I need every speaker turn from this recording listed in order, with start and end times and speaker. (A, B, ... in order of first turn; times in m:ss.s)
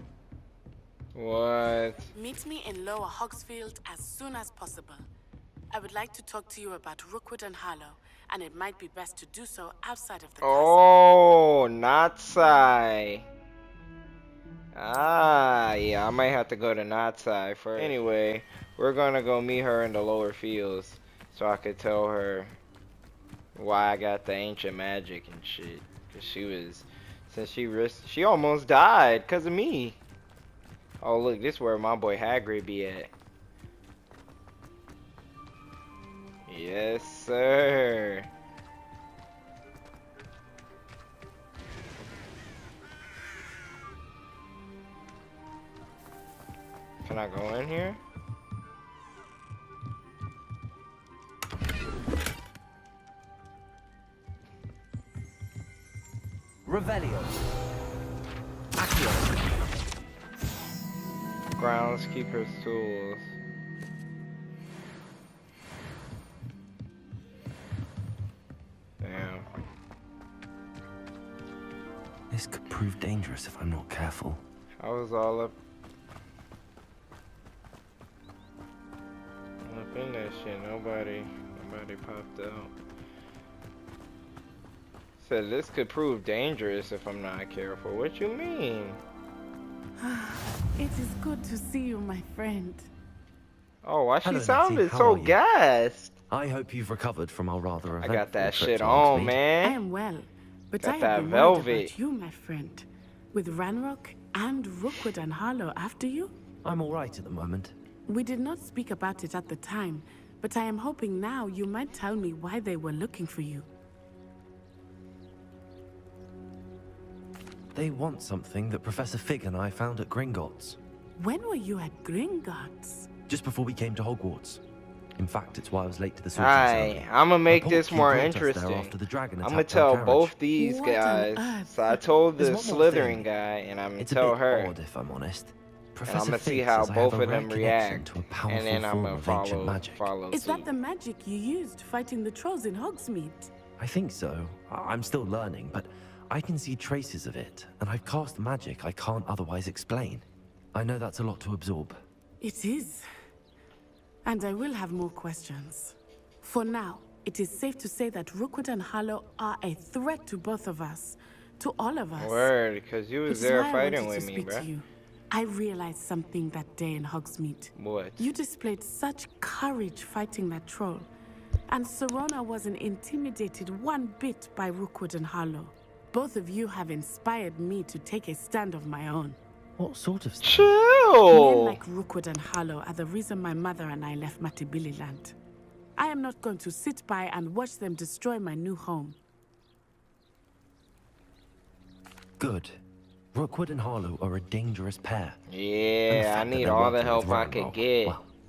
0:01.2-0:02.1 A
0:02.2-0:05.1 B
0:05.7-0:10.8 B
0:10.4-0:13.3 A
0:14.7-0:22.6 A
0:23.6-0:30.0 A
0:31.0-0:33.1 A
0:36.5-0:38.3 A
0:47.0-0:48.0 A
0:56.6-0:57.4 C
0:58.8-0:59.4 C
1:01.6-1:03.3 A
1:09.0-1:09.5 A
1:12.3-1:14.4 C
1:14.8-1:15.6 A
1:19.6-1:22.7 A
1:25.2-1:29.0 A
1:30.0-1:32.9 B
1:33.8-1:36.1 A
1:34.2-1:35.4 C
1:36.3-1:39.4 C
1:38.0-1:39.8 A
1:39.6-1:46.3 B
1:40.8-1:41.9 A
1:46.6-1:47.8 C
1:48.1-1:53.7 B
1:57.7-2:00.8 C
2:01.2-2:03.1 B
2:03.3-2:04.6 C
2:05.2-2:10.3 C
2:06.4-2:14.7 A
2:10.6-2:12.0 B
2:12.4-2:13.3 C
2:14.0-2:20.1 C
2:16.1-2:20.7 A
2:20.3-2:23.5 B
2:23.8-2:32.0 C
2:32.4-2:33.1 B
2:34.2-2:42.5 B
2:42.2-2:44.7 A
2:43.3-2:51.1 B
2:47.8-2:48.3 A
2:51.7-2:59.4 B
2:59.8-3:00.7 C
3:00.4-3:01.8 A
3:01.3-3:05.4 B
3:06.0-3:09.2 B
3:12.4-3:12.8 C
3:13.3-3:15.4 C
3:15.5-3:18.2 A
3:16.1-3:18.3 C